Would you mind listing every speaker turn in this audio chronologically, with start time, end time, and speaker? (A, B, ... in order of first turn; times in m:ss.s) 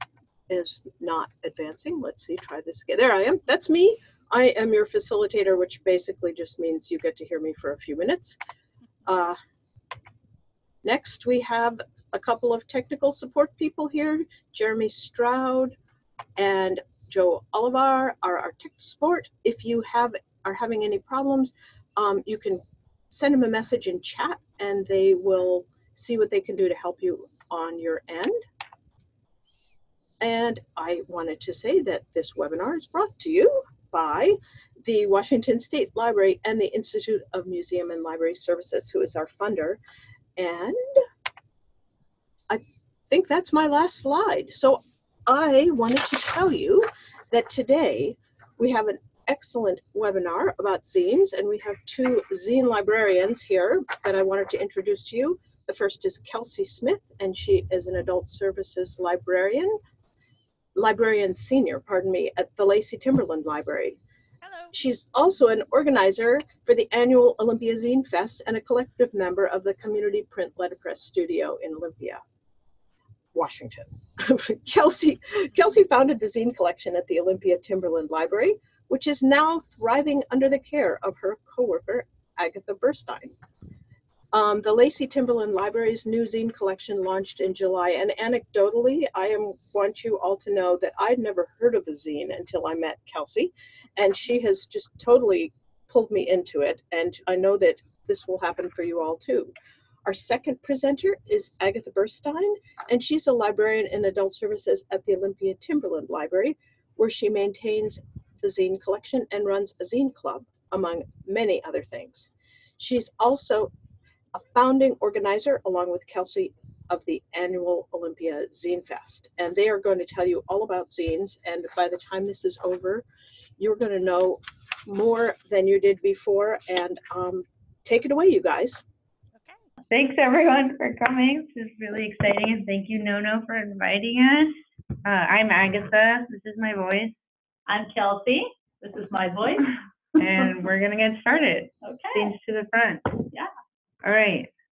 0:00.5-0:08.4 A
0:09.1-0:09.4 A
0:10.8-0:15.8 A
0:16.4-0:28.4 A
0:30.2-0:39.8 A
0:40.4-0:41.0 A
0:42.5-0:59.8 A
1:00.8-1:04.0 A
1:04.7-1:12.2 A
1:13.3-1:23.4 A
1:24.3-1:39.5 A
1:40.0-1:53.7 A
1:54.3-2:03.0 A
2:03.6-2:08.8 A
2:09.9-2:17.2 B
2:17.7-2:19.8 C
2:20.2-2:23.2 B
2:21.8-2:22.3 C
2:24.0-2:24.5 B